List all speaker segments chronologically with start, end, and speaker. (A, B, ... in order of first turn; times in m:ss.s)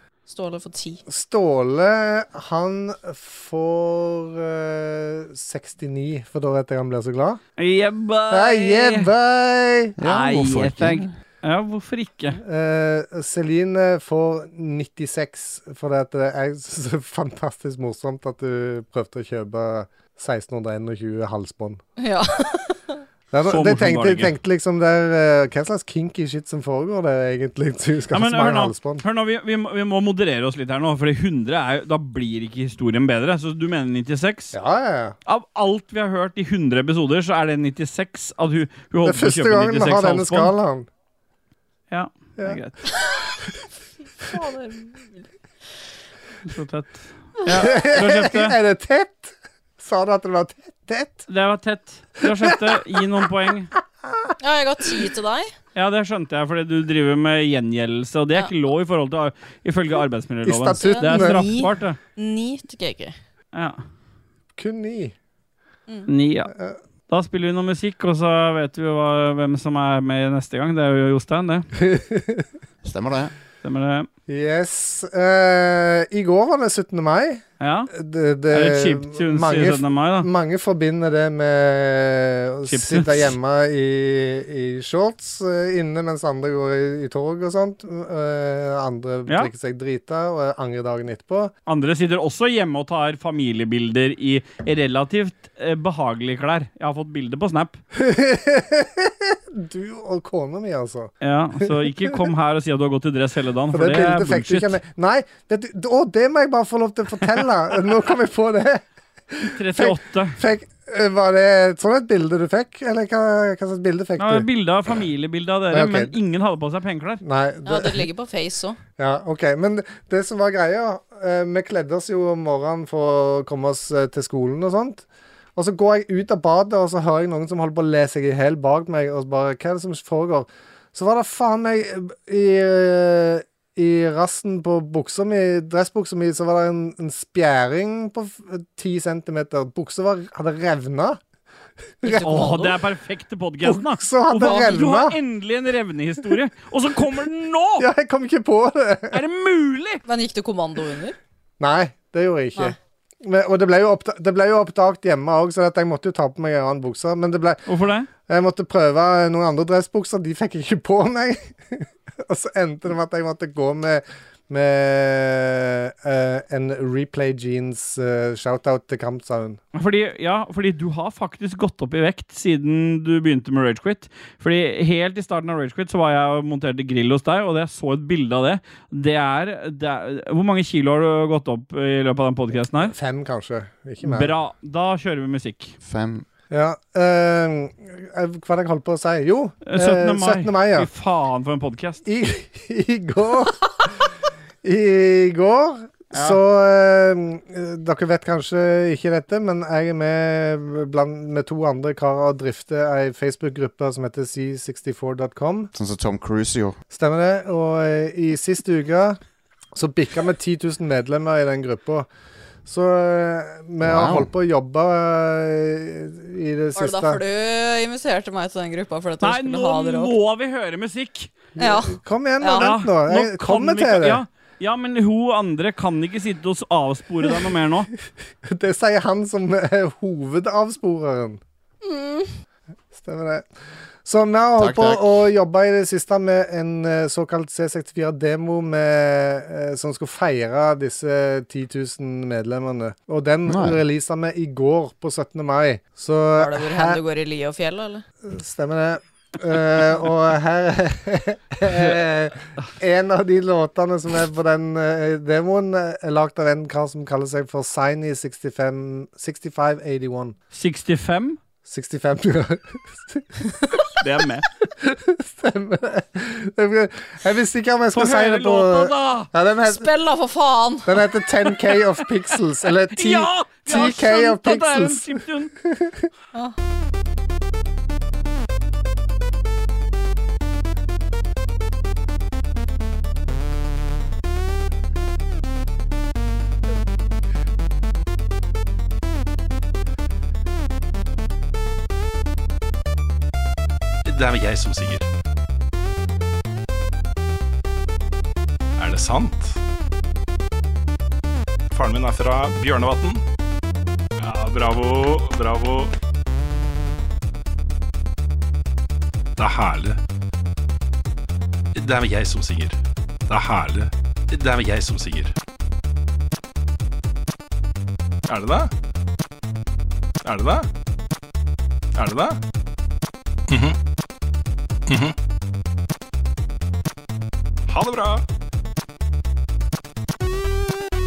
0:00.3-0:01.0 A
0:01.1-0:07.4 B
0:07.6-0:09.1 C
0:08.3-0:10.0 B
0:10.0-0:11.1 D
0:10.0-0:12.4 C
0:12.4-0:21.8 B
0:22.0-0:23.0 A
0:23.3-0:29.0 B
0:23.5-0:24.3 C
0:28.1-0:34.5 C
0:34.5-0:35.2 B
0:35.2-0:40.5 C
0:39.0-0:40.9 B
0:41.9-0:42.8 C
0:44.2-0:45.3 A
0:46.4-0:48.6 C
0:47.6-0:51.2 B
0:51.3-0:53.7 C
0:52.4-0:52.7 B
0:54.0-0:54.3 B
0:54.4-0:55.5 A
0:55.7-1:02.0 C
1:00.4-1:01.4 B
1:00.8-1:03.1 A
1:03.5-1:03.8 C
1:04.6-1:05.1 B
1:06.1-1:06.5 C
1:06.5-1:06.8 B
1:07.1-1:11.7 C
1:11.8-1:12.5 B
1:12.8-1:13.3 D
1:13.6-1:14.1 C
1:14.3-1:31.5 B
1:17.6-1:17.9 C
1:18.5-1:20.3 C
1:22.7-1:23.3 C
1:31.6-1:37.8 C
1:37.9-1:42.1 B
1:41.2-1:44.8 C
1:43.7-1:54.4 B
1:49.5-1:50.4 C
1:54.2-1:57.2 C
1:55.7-1:56.1 B
1:57.2-1:58.0 B
1:57.6-1:58.8 A
1:59.0-2:05.0 B
2:05.6-2:21.2 B
2:22.0-2:22.6 B
2:22.0-2:22.7 A
2:22.1-2:27.8 C
2:23.6-2:25.2 B
2:27.8-2:29.2 B
2:29.1-2:30.0 C
2:30.0-2:31.2 A
2:31.6-2:37.6 B
2:37.6-2:38.1 C
2:38.2-2:49.6 B
2:49.7-3:02.9 C
3:02.7-3:04.3 B
3:04.0-3:05.8 C
3:05.8-3:06.2 D
3:06.5-3:10.9 B
3:09.6-3:12.0 C
3:12.0-3:14.1 B
3:14.6-3:25.7 B
3:16.1-3:16.4 C
3:25.7-3:26.8 D
3:26.9-3:29.2 B
3:29.7-3:32.1 B
3:32.6-3:37.2 B
3:33.8-3:34.3 D
3:36.8-3:40.1 A
3:39.2-3:41.3 C
3:41.6-3:44.2 B
3:41.6-3:42.7 A
3:42.5-3:47.9 C
3:48.4-3:51.4 B
3:51.8-3:52.3 A
3:52.9-3:53.5 B
3:54.0-4:07.0 B
3:54.6-3:55.2 D
4:03.5-4:03.8 D
4:06.4-4:08.0 A
4:08.2-4:20.3 B
4:20.5-4:21.4 C
4:21.6-4:23.8 B
4:24.0-4:24.4 C
4:24.8-4:29.9 B
4:27.9-4:29.3 C
4:29.6-4:31.0 A
4:30.8-4:36.1 B
4:32.9-4:35.5 C
4:54.0-4:55.1 E
4:58.8-4:59.6 E
5:01.7-5:03.2 E
5:04.2-5:05.9 E
5:09.4-5:10.0 E
5:11.7-5:15.3 E
5:18.3-5:18.7 E
5:20.2-5:20.7 E
5:21.9-5:22.4 E
5:23.5-5:23.8 E
5:24.9-5:25.1 E
5:27.7-5:28.2 E